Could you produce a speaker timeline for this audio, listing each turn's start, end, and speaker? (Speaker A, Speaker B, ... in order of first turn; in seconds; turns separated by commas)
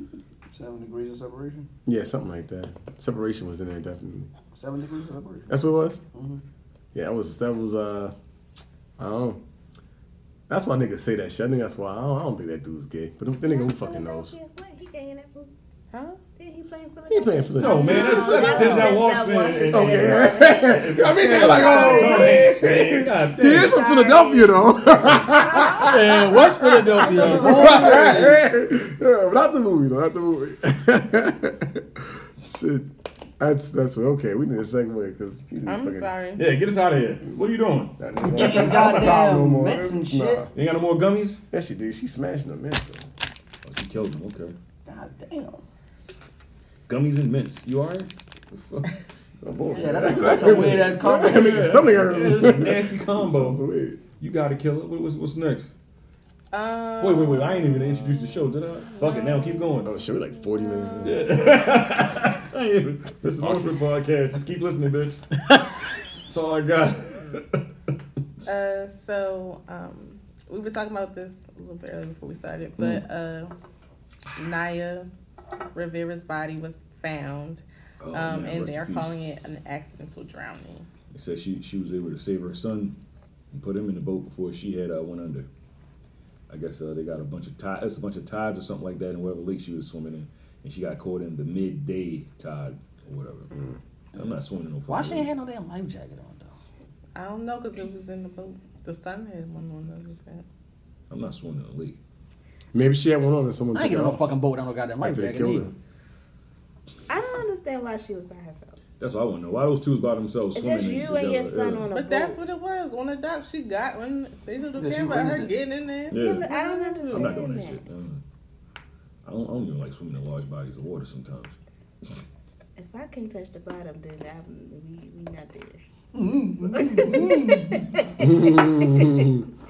Speaker A: 0.5-1.7, Speaker B: 1.9-4.3, Speaker A: 4.5-5.5, Speaker B: 5.5-6.0, Speaker A: 6.1-6.4, Speaker B: 6.9-8.1, Speaker B: 9.0-9.4, Speaker B: 10.5-14.3, Speaker C: 13.4-15.5, Speaker D: 15.9-16.2, Speaker C: 16.4-22.5, Speaker B: 17.1-18.4, Speaker E: 17.6-23.8, Speaker D: 17.8-18.8, Speaker A: 18.5-18.9, Speaker B: 19.7-32.9, Speaker C: 23.4-28.2, Speaker A: 25.7-28.4, Speaker B: 33.4-36.1, Speaker D: 35.6-36.4, Speaker E: 36.4-39.0, Speaker B: 38.0-40.5, Speaker A: 38.2-40.5, Speaker E: 40.5-41.4, Speaker B: 41.5-43.0, Speaker E: 43.6-44.5, Speaker A: 44.9-45.6, Speaker E: 46.9-48.9, Speaker B: 49.4-54.0, Speaker A: 49.7-51.8, Speaker E: 50.5-53.6, Speaker E: 54.2-55.7, Speaker D: 56.5-57.8, Speaker E: 57.0-59.9, Speaker B: 59.8-61.4, Speaker E: 61.0-65.2, Speaker B: 63.4-63.7, Speaker E: 66.3-67.6, Speaker D: 68.5-73.5, Speaker D: 74.3-75.1, Speaker D: 75.7-80.9, Speaker E: 78.0-79.2, Speaker E: 81.1-82.9, Speaker E: 83.5-85.5, Speaker E: 86.5-93.5, Speaker E: 94.1-95.3, Speaker A: 94.9-96.5, Speaker D: 97.2-100.4, Speaker E: 101.1-102.0, Speaker B: 102.7-104.3, Speaker A: 103.7-105.7, Speaker B: 105.0-105.7, Speaker C: 107.1-108.8, Speaker E: 109.0-111.9, Speaker C: 110.5-112.4, Speaker D: 111.9-117.3, Speaker A: 114.8-115.5, Speaker E: 116.1-116.5, Speaker C: 116.1-117.8, Speaker E: 117.0-118.2, Speaker E: 119.2-121.5, Speaker C: 122.8-125.8, Speaker A: 126.1-127.8, Speaker C: 126.5-129.3, Speaker B: 128.2-129.4